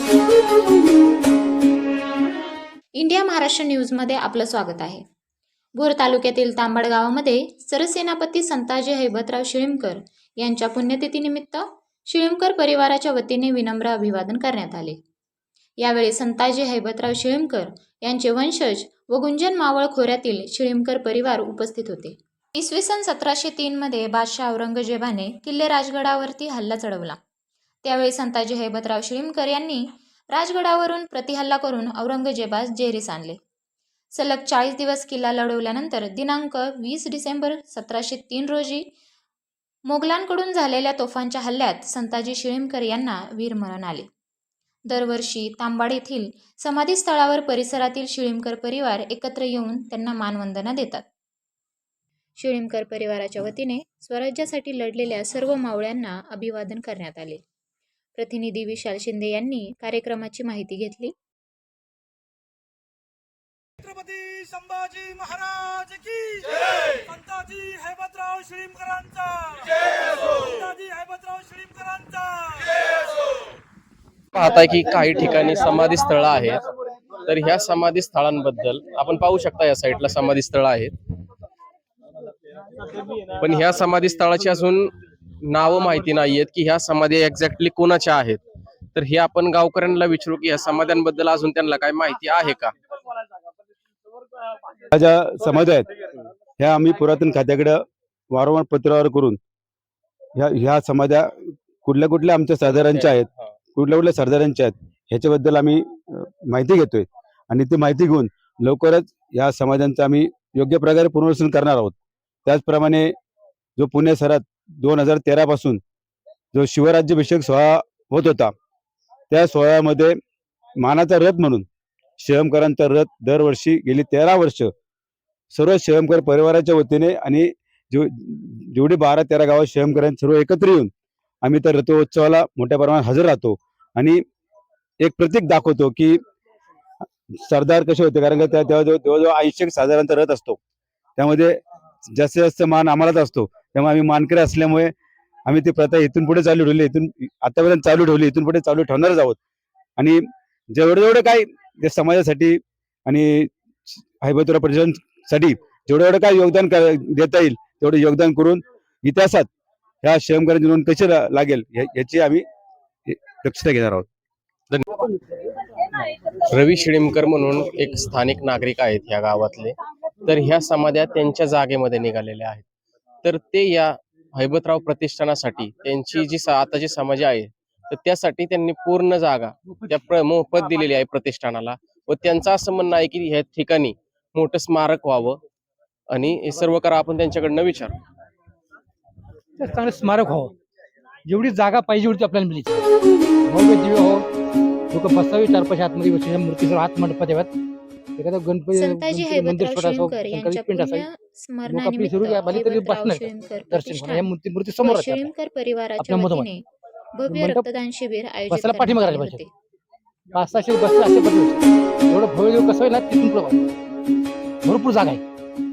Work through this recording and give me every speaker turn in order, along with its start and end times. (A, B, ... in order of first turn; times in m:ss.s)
0:03.0-0:05.0 A
0:05.8-0:15.0 A
0:15.8-0:27.2 A
0:27.8-0:33.4 A
0:34.2-0:38.9 A
0:39.9-0:44.1 A
0:44.9-0:51.1 A
0:52.4-0:57.4 A
0:58.2-1:01.1 A
1:03.8-1:13.2 B
1:14.3-1:16.6 C
1:17.2-1:20.9 C
1:23.4-1:24.9 C
1:25.5-1:28.4 C
1:29.0-1:32.7 C
1:34.9-1:35.9 D
1:36.6-1:37.8 D
1:38.3-1:39.4 D
1:40.4-1:53.1 D
1:42.7-1:43.5 C
1:53.8-1:55.8 D
1:56.5-1:58.5 D
1:59.3-2:00.2 D
2:00.8-2:01.7 D
2:02.2-2:04.7 D
2:05.5-2:10.9 D
2:11.4-2:14.2 D
2:15.0-2:16.2 D
2:17.4-2:20.6 D
2:21.2-2:21.6 D
2:22.1-2:24.9 D
2:25.5-2:29.4 D
2:30.0-2:30.2 D
2:30.7-2:39.5 D
2:40.0-2:42.4 D
2:43.1-2:44.1 D
2:44.7-2:45.2 C
2:46.4-2:52.7 C
2:53.2-3:05.4 C
3:06.1-3:08.0 C
3:09.6-3:10.5 E
3:11.2-3:12.8 E
3:13.5-3:14.3 E
3:14.9-3:17.5 E
3:18.2-3:21.0 E
3:18.7-3:29.5 A
3:21.7-3:25.3 E
3:26.0-3:26.5 E
3:27.3-3:27.7 E
3:28.5-3:29.4 E
3:30.3-3:33.7 E
3:34.6-3:35.2 E